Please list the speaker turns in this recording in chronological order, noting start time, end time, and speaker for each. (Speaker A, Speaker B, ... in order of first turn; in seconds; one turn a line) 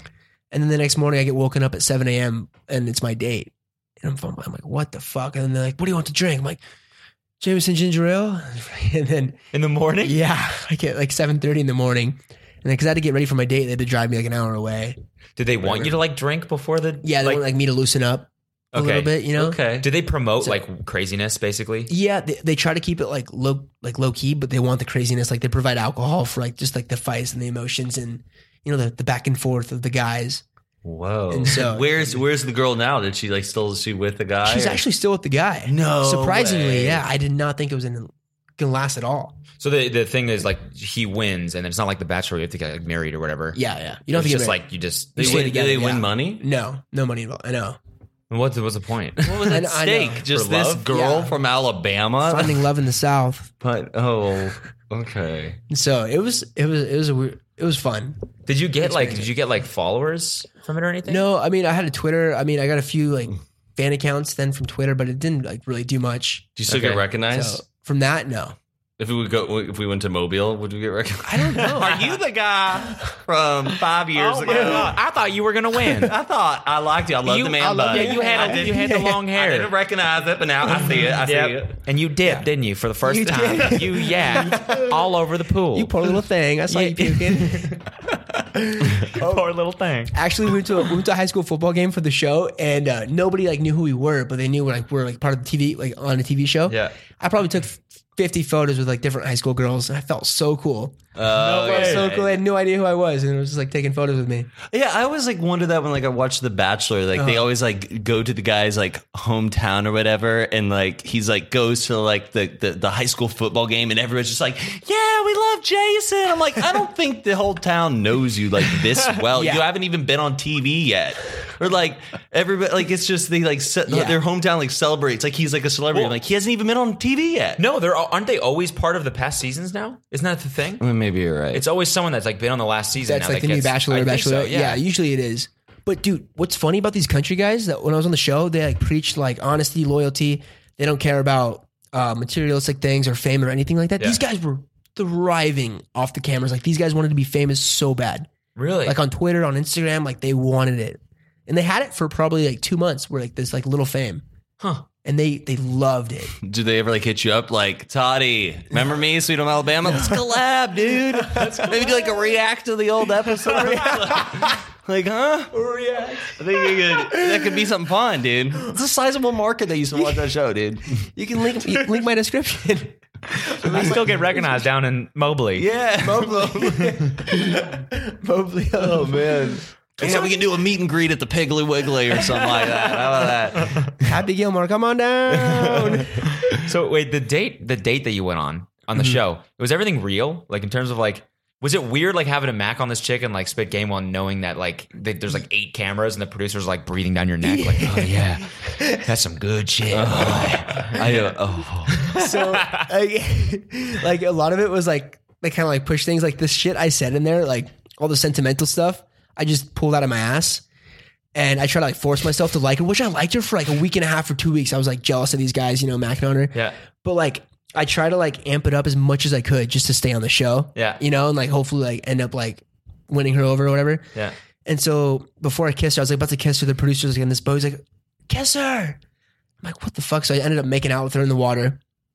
Speaker A: 0.5-6.6
Speaker A: 7.4-9.4
Speaker B: 9.5-10.2
Speaker A: 10.0-15.0
Speaker B: 15.4-17.4
Speaker A: 15.6-16.0
Speaker A: 17.0-19.6
Speaker B: 18.7-19.2
Speaker C: 19.4-19.9
Speaker B: 19.8-21.9
Speaker A: 21.9-30.4
Speaker C: 30.8-34.8
Speaker A: 31.3-32.2
Speaker A: 34.4-39.4
Speaker C: 35.7-37.1
Speaker B: 39.6-43.6
Speaker A: 43.5-44.6
Speaker B: 44.1-45.4
Speaker A: 45.2-47.8
Speaker C: 45.2-46.4
Speaker B: 48.3-49.6
Speaker C: 49.2-52.7
Speaker A: 49.4-50.3
Speaker B: 50.3-50.9
Speaker A: 50.9-51.4
Speaker A: 52.2-53.5
Speaker C: 53.6-55.6
Speaker A: 55.7-58.2
Speaker B: 58.5-61.3
Speaker A: 58.8-59.3
Speaker A: 61.1-66.5
Speaker C: 66.6-67.6
Speaker B: 66.7-67.0
Speaker A: 67.3-68.6
Speaker C: 69.0-75.0
Speaker A: 71.2-72.2
Speaker B: 74.1-76.1
Speaker A: 74.5-75.0
Speaker C: 75.9-81.8
Speaker B: 77.2-79.7
Speaker A: 77.8-79.2
Speaker A: 80.8-81.0
Speaker B: 81.2-86.0
Speaker A: 83.0-85.2
Speaker A: 85.7-87.9
Speaker B: 86.7-87.9
Speaker A: 88.5-89.5
Speaker B: 88.8-90.2
Speaker A: 90.1-104.5
Speaker B: 96.7-97.0
Speaker C: 101.2-102.4
Speaker B: 101.3-102.2
Speaker C: 104.7-127.6
Speaker A: 107.2-107.5
Speaker A: 119.3-119.7
Speaker A: 123.9-124.2
Speaker B: 127.6-130.8
Speaker C: 130.8-131.7
Speaker B: 131.5-134.8
Speaker A: 133.0-148.3
Speaker B: 148.6-149.0
Speaker A: 148.8-154.2
Speaker B: 154.6-154.9
Speaker A: 155.0-156.3
Speaker C: 156.4-165.6
Speaker A: 159.9-160.4
Speaker A: 161.0-162.4
Speaker A: 163.2-164.6
Speaker A: 165.5-167.7
Speaker C: 166.3-171.1
Speaker A: 169.9-170.3
Speaker A: 170.9-174.7
Speaker B: 173.4-175.7
Speaker C: 175.6-177.0
Speaker A: 176.0-180.4
Speaker C: 178.8-184.1
Speaker A: 182.2-183.3
Speaker B: 183.6-183.9
Speaker A: 184.0-186.4
Speaker C: 185.4-186.1
Speaker B: 186.5-201.0
Speaker A: 197.4-199.1
Speaker C: 197.9-198.1
Speaker C: 199.9-202.1
Speaker A: 200.3-201.3
Speaker B: 201.9-202.9
Speaker A: 202.1-210.6
Speaker A: 211.3-224.1
Speaker B: 216.5-216.8
Speaker B: 220.8-221.0
Speaker A: 224.7-229.0
Speaker A: 229.6-231.8